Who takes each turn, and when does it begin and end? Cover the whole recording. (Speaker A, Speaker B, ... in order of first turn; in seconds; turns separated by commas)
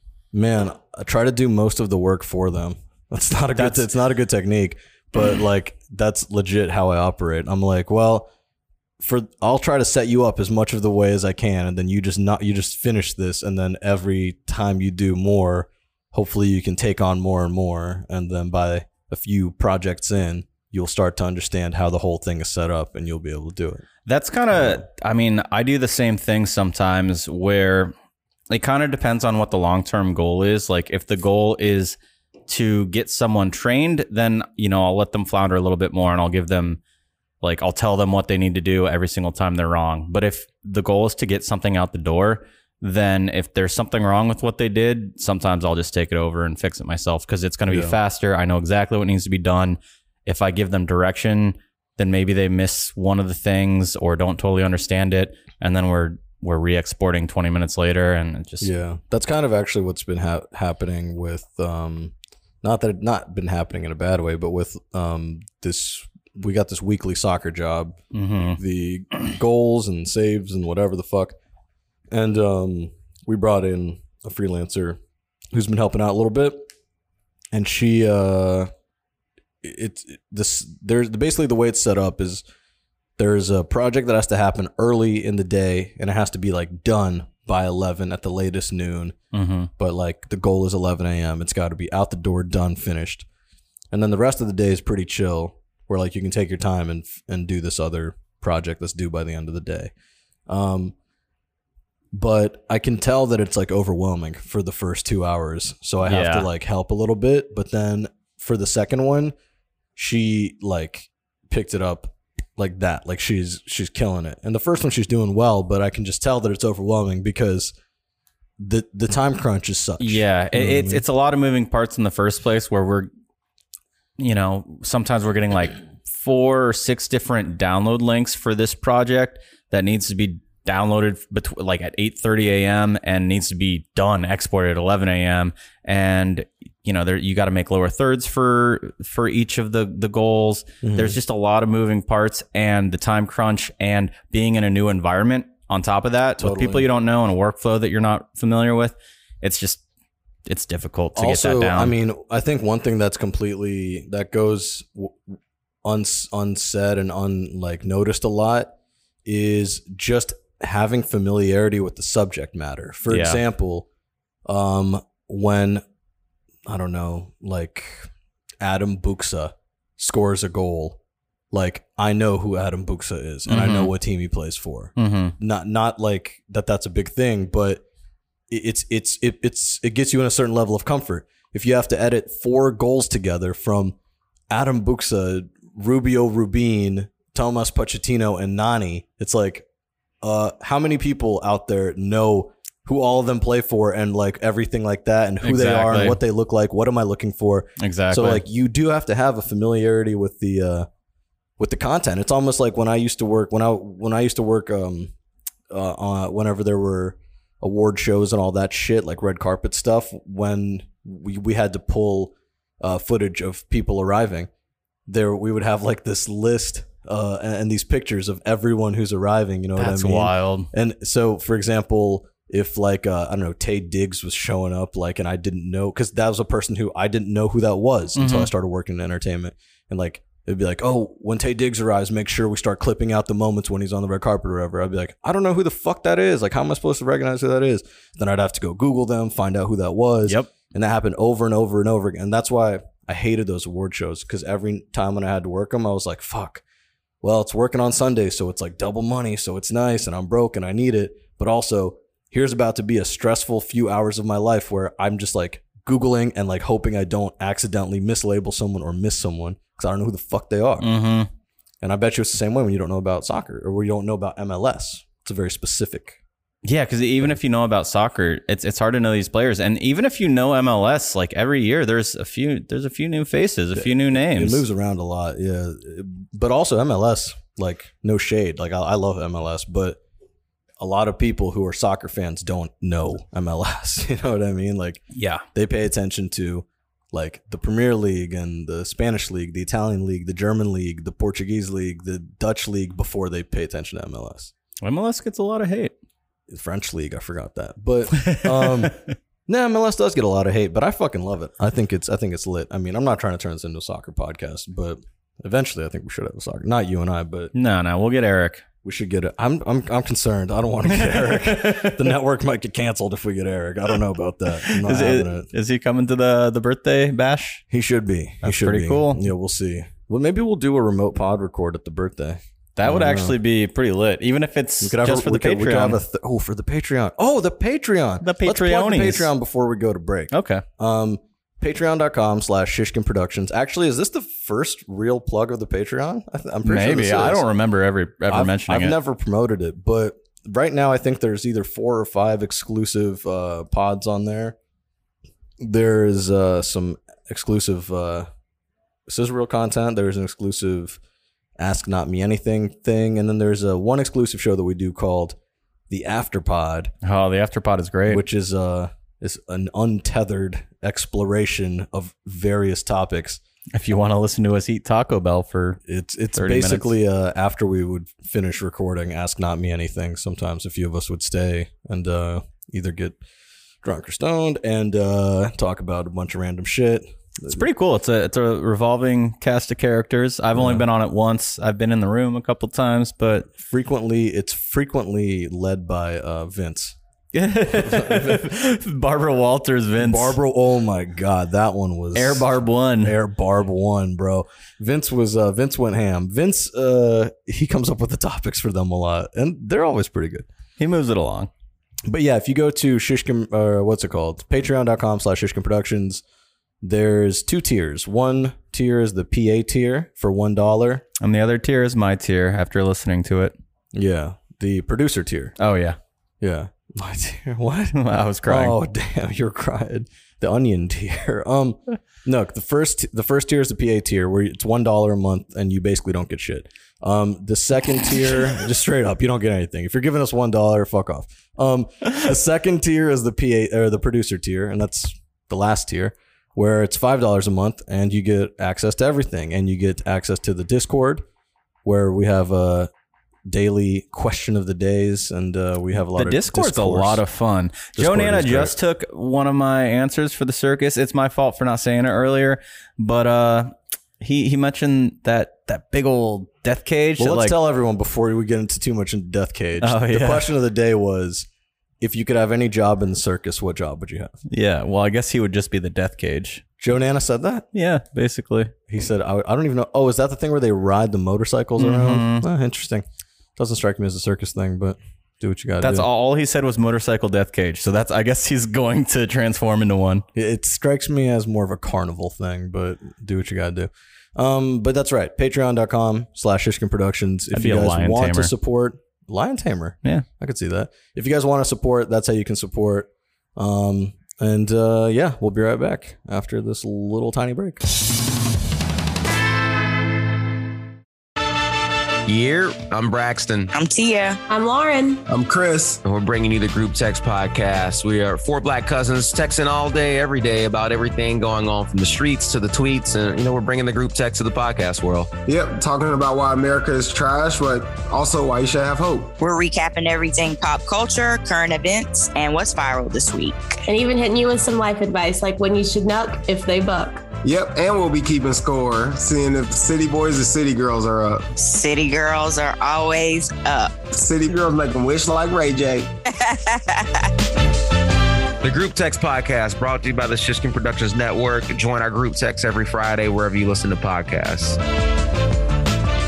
Speaker A: 0.3-8.3, Speaker B: 3.5-3.9, Speaker A: 9.0-23.9, Speaker B: 24.1-27.9, Speaker B: 28.5-32.0, Speaker B: 32.5-36.8, Speaker B: 37.4-58.7, Speaker A: 47.7-48.0, Speaker A: 58.6-68.0, Speaker B: 68.1-68.6, Speaker A: 68.5-71.4, Speaker A: 72.1-75.0, Speaker A: 75.5-76.7, Speaker A: 77.5-78.7, Speaker A: 79.6-82.4, Speaker A: 83.2-89.2, Speaker B: 89.3-89.7, Speaker A: 89.8-93.3, Speaker A: 93.9-99.9, Speaker A: 100.5-101.0, Speaker A: 102.1-109.3, Speaker B: 106.0-106.5, Speaker A: 110.0-117.7, Speaker A: 118.6-121.0, Speaker B: 120.0-123.1, Speaker B: 124.2-149.8, Speaker A: 140.8-141.2, Speaker A: 146.4-146.9, Speaker B: 150.5-151.9, Speaker A: 151.2-155.3, Speaker A: 155.8-158.7, Speaker A: 159.2-163.9, Speaker B: 163.1-163.4, Speaker A: 164.5-165.8, Speaker A: 166.7-171.0, Speaker A: 171.5-177.8, Speaker B: 173.5-173.9, Speaker B: 175.0-175.4, Speaker A: 178.5-184.0, Speaker A: 184.5-189.7, Speaker A: 190.2-200.9, Speaker B: 195.4-196.2, Speaker B: 197.8-198.4, Speaker A: 201.6-205.1, Speaker A: 205.7-214.5, Speaker A: 215.1-246.6, Speaker B: 219.8-220.7, Speaker B: 228.2-228.5, Speaker A: 247.2-260.9, Speaker B: 260.8-261.3, Speaker A: 261.8-266.2, Speaker B: 266.6-274.6, Speaker A: 273.8-280.0, Speaker A: 280.8-294.5, Speaker B: 285.1-285.4, Speaker B: 294.8-295.9, Speaker A: 296.5-307.5, Speaker B: 298.1-299.1, Speaker B: 307.5-308.6, Speaker A: 308.8-315.5, Speaker B: 310.9-312.0, Speaker B: 314.7-317.6, Speaker A: 317.7-323.4, Speaker B: 318.4-319.2, Speaker B: 322.8-326.0, Speaker A: 324.8-337.4, Speaker B: 328.2-329.3, Speaker B: 330.3-330.6, Speaker B: 336.6-339.0, Speaker A: 338.3-344.6, Speaker A: 345.6-348.3, Speaker A: 349.1-351.0, Speaker A: 351.6-355.4, Speaker A: 355.9-356.9, Speaker B: 357.0-358.2, Speaker A: 358.1-363.4, Speaker B: 363.7-365.8, Speaker A: 365.9-373.2, Speaker B: 366.3-366.9, Speaker A: 373.8-377.6, Speaker B: 377.5-383.5, Speaker A: 380.6-380.9, Speaker A: 383.6-387.0, Speaker B: 387.3-390.4, Speaker A: 387.7-388.5, Speaker A: 390.0-400.5, Speaker B: 392.1-393.2, Speaker B: 400.8-401.5, Speaker A: 402.1-406.2, Speaker A: 406.8-411.1, Speaker B: 411.2-413.6, Speaker A: 413.9-415.5, Speaker B: 415.6-416.0, Speaker A: 416.4-441.2, Speaker B: 417.9-418.8, Speaker A: 441.8-442.9, Speaker A: 443.5-447.2, Speaker B: 446.2-457.6, Speaker A: 447.9-448.8, Speaker A: 457.2-461.5, Speaker B: 459.8-460.5, Speaker A: 462.0-464.4, Speaker B: 464.5-466.6, Speaker A: 466.8-467.7, Speaker B: 467.7-468.7, Speaker A: 468.9-473.1, Speaker B: 471.8-472.5, Speaker A: 473.6-476.1, Speaker B: 475.8-480.3, Speaker A: 480.4-497.8, Speaker B: 487.5-488.5, Speaker C: 502.3-503.7, Speaker D: 503.7-504.4, Speaker E: 504.5-505.2, Speaker F: 505.3-506.0, Speaker C: 506.0-515.3, Speaker F: 515.5-519.3, Speaker D: 519.4-523.8, Speaker E: 523.9-527.2, Speaker F: 527.4-531.5, Speaker D: 531.5-533.9, Speaker F: 534.1-536.1, Speaker D: 536.3-537.3, Speaker C: 538.6-544.8